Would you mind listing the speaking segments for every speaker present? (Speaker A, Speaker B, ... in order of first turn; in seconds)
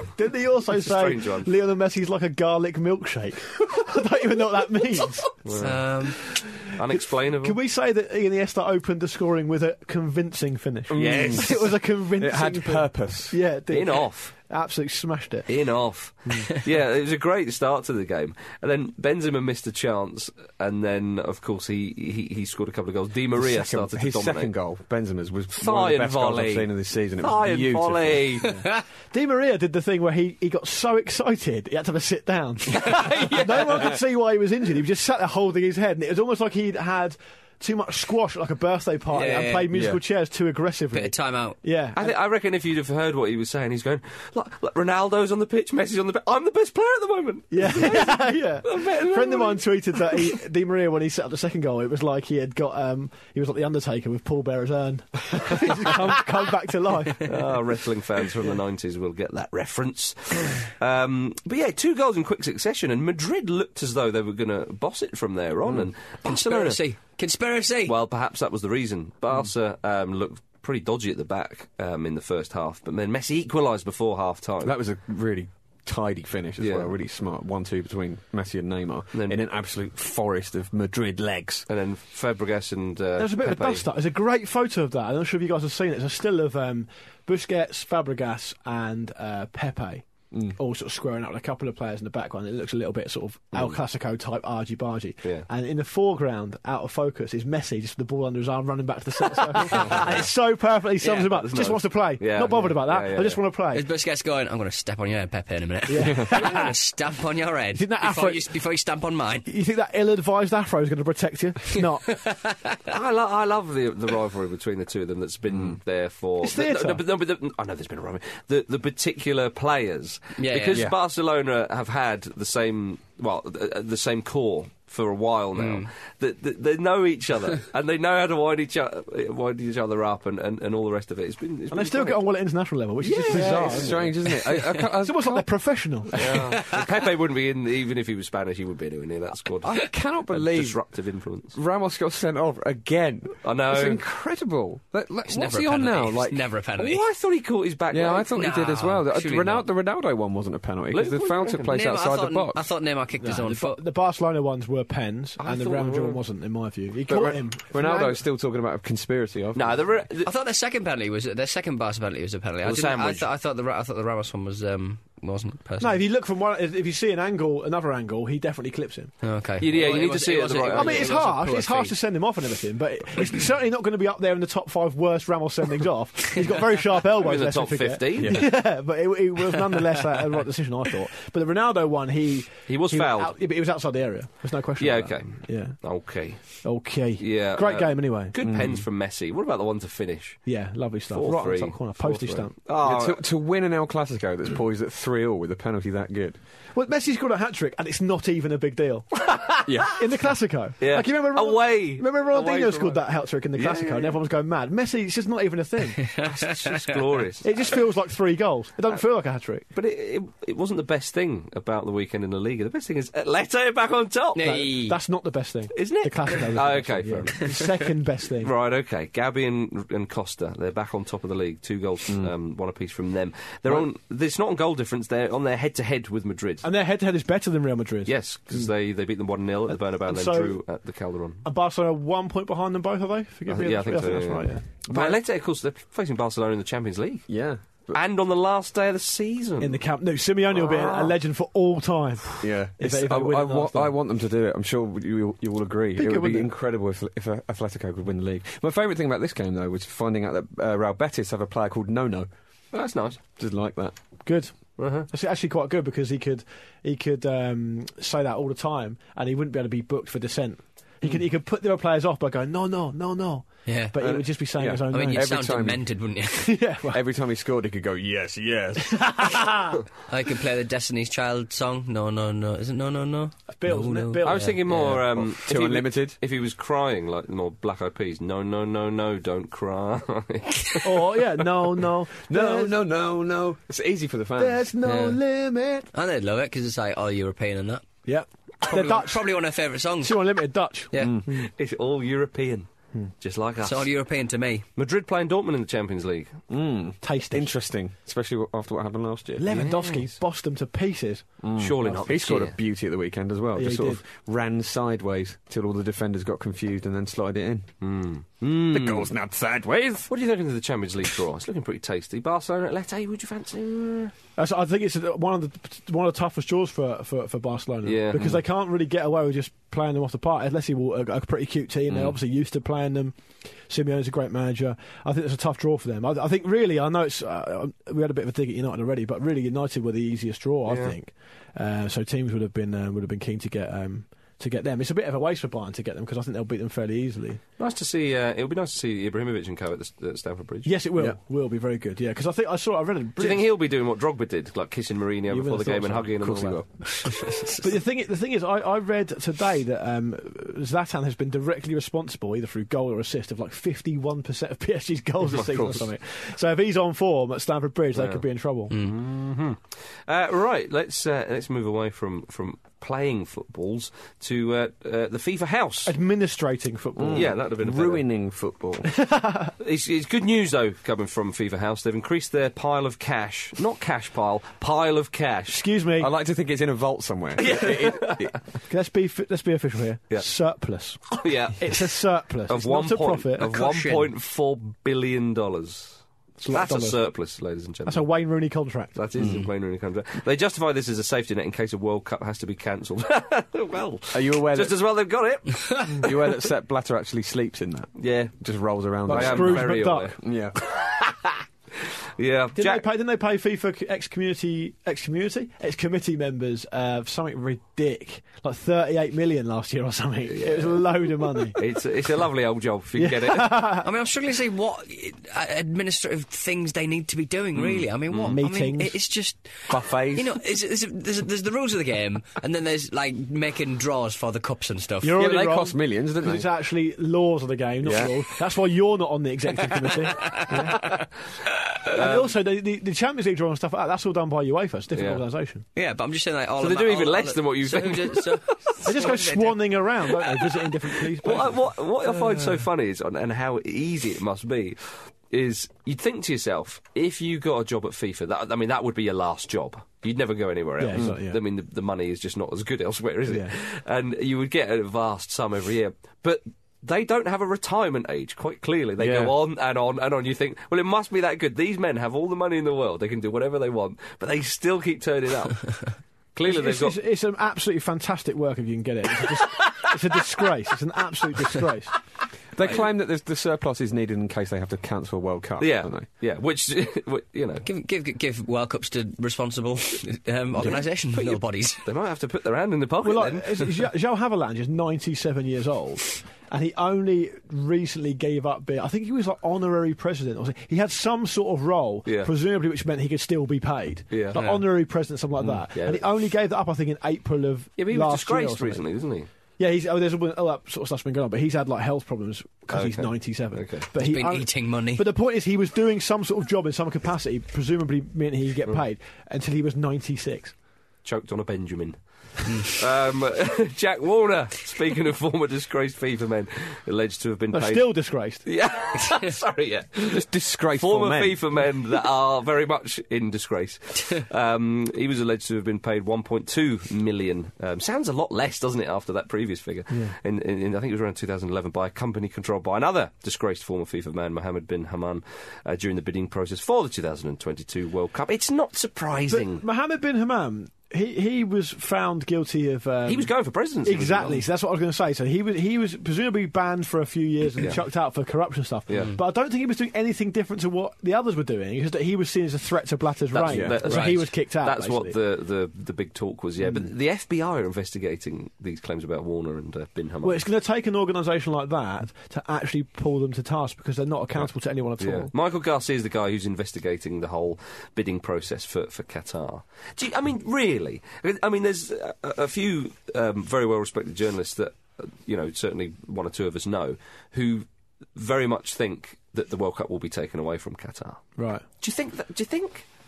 Speaker A: 0.1-5.4, 6.3-15.5, 28.5-42.1, 47.5-57.3, 83.2-103.9, 105.9-106.7, 107.7-108.5, 109.5-112.2, 116.4-117.0, 131.7-134.2, 135.0-136.4, 153.2-158.2, 165.8-169.2, 170.7-185.8, 186.6-188.3, 190.4-192.5, 196.7-206.0, 207.4-209.6, 214.4-218.5, 226.6-228.7, 230.0-230.6, 231.4-234.6, 239.6-243.9, 245.9-246.5, 254.2-265.3, 266.4-267.0, 268.9-269.8, 273.5-274.5, 280.8-282.7, 284.4-285.9, 288.1-289.3, 290.0-291.5, 297.0-297.5, 299.4-302.1, 303.6-304.0, 314.4-323.2, 323.7-337.4, 340.6-343.5, 345.3-346.5, 347.6-358.7, 365.9-367.3, 368.9-369.5, 375.5-376.1, 378.7-383.5, 386.4-387.0, 387.9-388.9, 399.1-400.1, 402.6-411.6, 412.9-413.9, 418.3-419.0, 425.0-430.9, 431.9-435.6, 438.8-441.7, 450.8-451.4, 453.3-453.5, 466.4-471.9, 483.0-498.8, 499.6-510.5, 517.5-518.4, 529.9-530.1, 539.3-543.3, 543.8-555.1, 556.6-556.9, 560.2-565.3, 581.4-581.6
Speaker B: 0.8-1.5, 5.4-5.8, 6.7-7.6, 10.9-11.6, 13.7-14.3, 15.5-24.5, 25.5-28.6, 32.8-33.5, 41.9-50.4, 57.2-66.8, 67.8-74.7, 76.6-76.9, 81.7-83.8, 101.0-103.4, 112.9-132.2, 133.1-134.0, 136.2-141.6, 143.4-144.0, 146.8-148.3, 150.9-151.8, 155.4-156.2, 159.5-160.3, 162.6-163.3, 169.6-171.2, 177.1-178.5, 182.7-183.3, 184.8-186.6, 187.2-190.4, 191.1-193.2, 200.8-204.2, 206.2-207.8, 209.7-214.6, 215.7-217.6, 218.4-226.7, 228.1-231.4, 233.5-237.3, 237.9-239.8, 240.5-241.1, 252.7-253.2, 254.8-255.1, 274.2-281.2, 291.3-292.7, 293.2-293.9, 294.8-296.3, 299.5-300.1, 301.6-302.6, 307.8-309.1, 310.1-314.1, 317.8-318.4, 330.7-330.9, 337.6-340.8, 343.2-346.7, 357.9-365.9, 367.1-368.0, 369.6-375.6, 377.4-378.3, 381.1-381.8, 382.5-388.1, 388.9-396.1, 398.0-398.3, 399.1-400.2, 402.2-402.9, 410.2-413.6, 417.5-418.4, 431.9-432.3, 434.9-435.2, 436.6-439.0, 441.2-467.0, 472.6-472.9, 475.6-477.6, 481.1-483.8, 492.1-492.3, 494.1-494.4, 495.7-496.1, 497.8-499.3, 502.7-503.9, 511.0-539.6, 543.0-544.4, 548.9-549.2, 553.3-560.4, 564.4-581.3, 581.8-582.8
Speaker C: 5.6-6.2, 28.5-28.8, 33.0-33.4, 39.1-39.7, 40.9-41.6, 66.2-68.0, 103.7-109.5, 112.1-112.8, 120.4-120.9, 125.5-125.9, 136.6-136.8, 145.2-147.0, 148.3-149.6, 151.7-153.8, 160.2-166.0, 169.2-171.9, 206.0-207.0, 214.3-215.0, 263.6-263.9, 264.9-266.6, 270.1-275.0, 284.8-285.2, 285.9-287.8, 288.6-290.2, 290.9-291.2, 293.6-294.6, 347.0-347.7, 383.4-384.1, 413.8-425.2, 430.0-430.6, 435.7-440.5, 477.6-481.8, 494.3-494.6, 503.9-505.0, 512.5-512.8, 553.9-554.2
Speaker D: 10.9-13.4, 23.3-28.4, 39.7-40.0, 74.6-81.7, 99.7-100.1, 115.5-115.8, 133.0-135.5, 136.1-136.4, 139.6-140.8, 141.5-146.5, 147.9-152.7, 157.1-160.1, 178.2-178.5, 188.4-188.8, 192.8-196.4, 199.6-200.0, 237.3-238.0, 242.4-252.3, 253.4-253.9, 264.0-265.8, 266.9-269.4, 275.2-276.2, 282.3-284.6, 291.0-291.2, 296.5-299.6, 301.4-307.7, 308.7-310.1, 346.2-346.6, 355.4-355.8, 366.9-368.9, 376.0-378.4, 389.2-389.5, 394.1-394.8, 396.0-400.6, 419.7-420.4, 425.2-426.5, 427.8-428.3, 459.0-459.4, 472.5-476.1, 520.0-521.4, 553.5-553.8